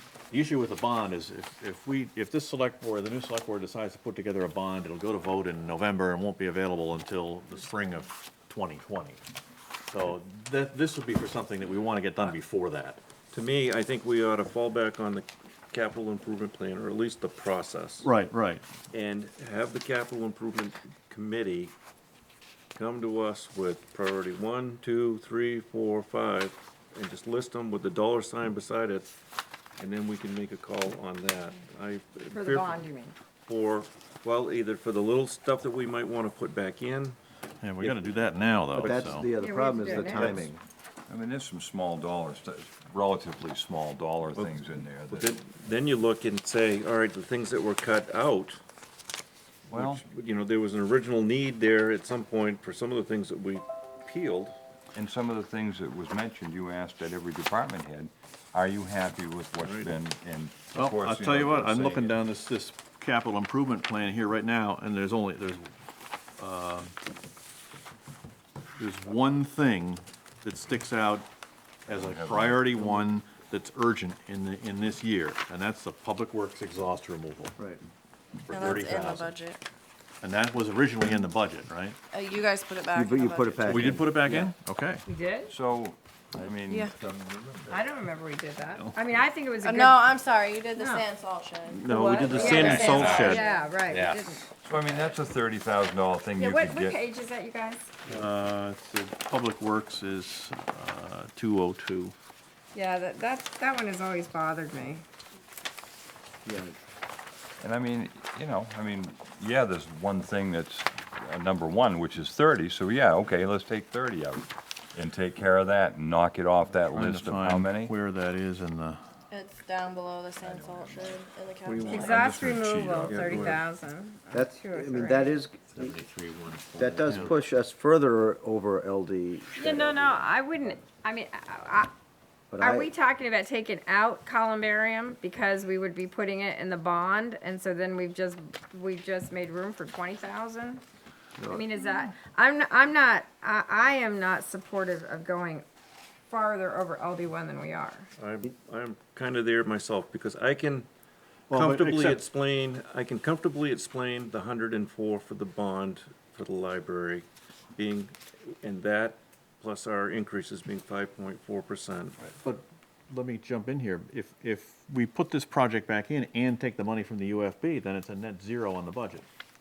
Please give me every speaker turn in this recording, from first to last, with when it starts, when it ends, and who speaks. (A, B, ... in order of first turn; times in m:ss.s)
0:00.3-0:09.2 A
0:09.9-0:13.0 A
0:13.3-0:18.1 B
0:18.0-0:18.6 A
0:18.9-0:21.7 B
0:22.8-0:29.1 B
0:29.8-0:32.8 B
0:32.3-0:33.2 C
0:33.4-0:37.2 B
0:37.6-0:39.3 A
0:37.8-0:38.2 B
0:38.8-0:40.6 D
0:39.4-0:40.5 C
0:41.1-0:45.3 E
0:44.3-0:48.6 B
0:49.7-0:54.6 B
0:49.7-0:50.0 E
0:54.9-1:02.2 E
0:59.6-1:00.0 B
1:00.7-1:05.7 A
1:06.4-1:07.0 A
1:08.8-1:11.3 A
1:11.9-1:17.6 A
1:11.9-1:12.9 E
1:18.4-1:19.3 A
1:18.5-1:19.6 F
1:20.2-1:22.0 A
1:22.1-1:24.0 F
1:22.9-1:24.3 D
1:23.6-1:25.0 A
1:25.1-1:25.5 C
1:25.5-1:26.9 E
1:26.7-1:26.9 F
1:27.7-1:30.0 C
1:29.6-1:33.7 F
1:30.8-1:31.1 C
1:31.7-1:33.4 A
1:31.9-1:34.5 C
1:32.5-1:33.0 B
1:32.6-1:33.3 D
1:34.6-1:37.0 E
1:36.4-1:37.9 C
1:38.1-1:42.1 A
1:42.7-1:45.0 C
1:46.4-1:46.8 D
1:47.6-1:57.9 E
1:56.9-1:59.0 A
1:59.3-2:02.5 F
2:01.8-2:02.0 B
2:01.9-2:03.6 E
2:01.9-2:05.4 C
2:03.0-2:03.6 B
2:04.3-2:06.0 D
2:05.7-2:07.4 A
2:06.8-2:10.3 D
2:09.6-2:11.9 C
2:12.5-2:12.9 D
2:12.6-2:20.8 C
2:21.4-2:25.7 C
2:26.3-2:28.1 C
2:28.2-2:30.9 B
2:31.5-2:32.3 A
2:31.5-2:42.3 B
2:42.4-2:49.2 A